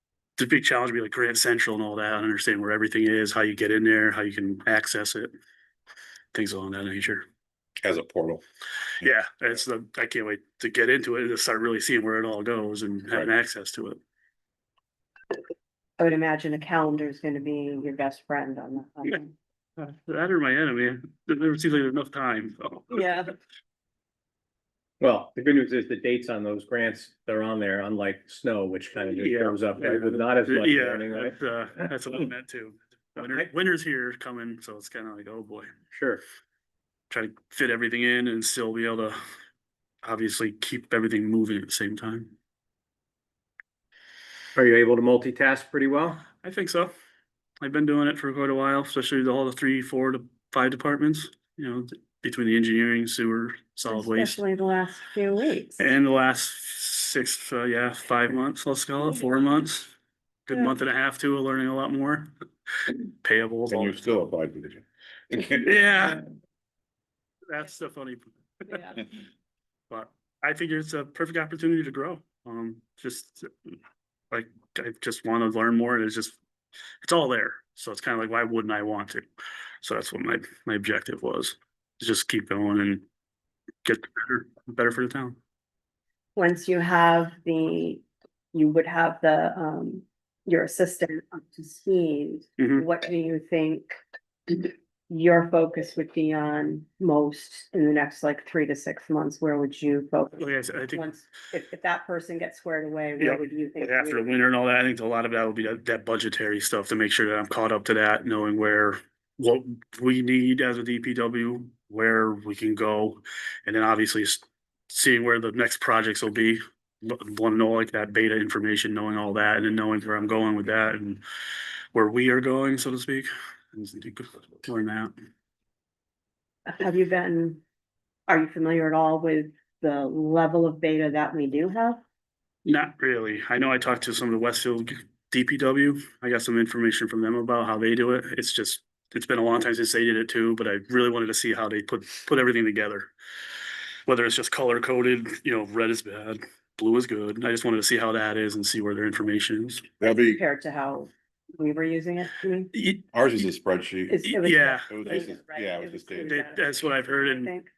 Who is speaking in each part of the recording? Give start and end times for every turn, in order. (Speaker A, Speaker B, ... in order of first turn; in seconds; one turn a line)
Speaker A: 0.4-5.3
Speaker A: 6.3-7.3
Speaker B: 7.8-8.4
Speaker A: 9.0-14.0
Speaker C: 16.0-19.3
Speaker A: 19.8-23.1
Speaker C: 22.9-23.3
Speaker D: 25.0-31.4
Speaker A: 29.2-35.7
Speaker D: 33.2-33.5
Speaker D: 35.9-36.2
Speaker A: 37.1-39.2
Speaker A: 40.0-42.3
Speaker D: 44.5-46.2
Speaker A: 46.4-46.9
Speaker A: 47.6-54.4
Speaker C: 53.9-55.9
Speaker A: 55.8-59.9
Speaker A: 60.5-62.3
Speaker A: 62.9-63.9
Speaker B: 63.7-65.9
Speaker A: 65.6-66.3
Speaker A: 67.5-69.0
Speaker C: 68.7-69.0
Speaker A: 69.9-73.8
Speaker A: 74.3-76.4
Speaker A: 77.0-79.3
Speaker A: 79.8-83.0
Speaker A: 83.8-85.4
Speaker C: 86.4-104.3
Speaker A: 92.6-92.9
Speaker A: 100.4-101.1
Speaker A: 103.2-121.2
Speaker A: 121.9-125.1
Speaker C: 126.7-127.6
Speaker C: 128.3-132.0
Speaker A: 132.7-143.1
Speaker A: 144.1-149.8
Speaker B: 150.0-150.4
Speaker C: 150.0-152.7
Speaker A: 152.7-153.1
Speaker B: 153.1-156.4
Speaker C: 154.1-157.7
Speaker A: 154.3-154.9
Speaker A: 156.2-157.5